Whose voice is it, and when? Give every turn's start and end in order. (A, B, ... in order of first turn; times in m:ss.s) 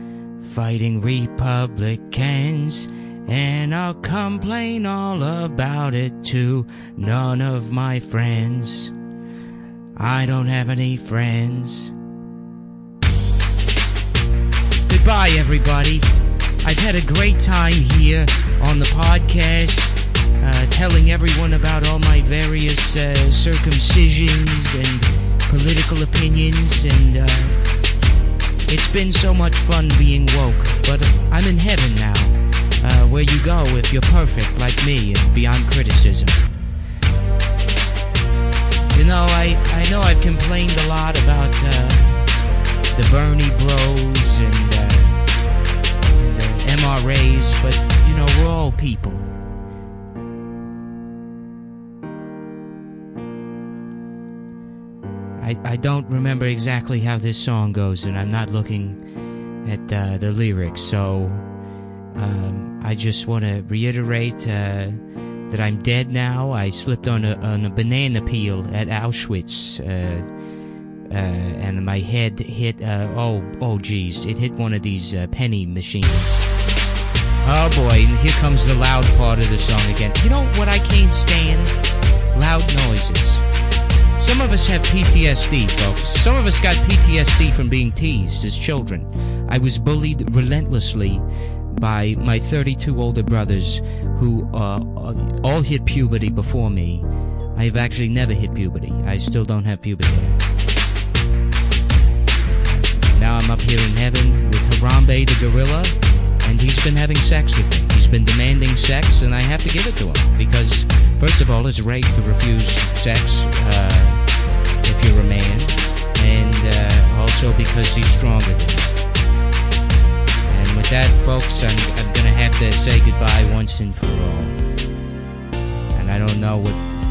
0:00.4-0:08.9 A
0:10.0-0:11.9 A
0:14.9-0:16.1 A
0:16.6-0:27.6 A
0:28.7-0:36.5 A
0:38.9-0:42.3 A
0:42.9-0:45.3 A
0:46.2-0:49.3 A
0:55.4-0:59.0 A
0:59.6-1:01.5 A
1:02.2-1:10.3 A
1:11.1-1:16.5 A
1:17.4-1:21.8 A
1:22.3-1:23.4 A
1:24.2-1:40.4 A
1:43.1-1:59.0 A
2:00.5-2:04.7 A
2:05.9-2:06.9 A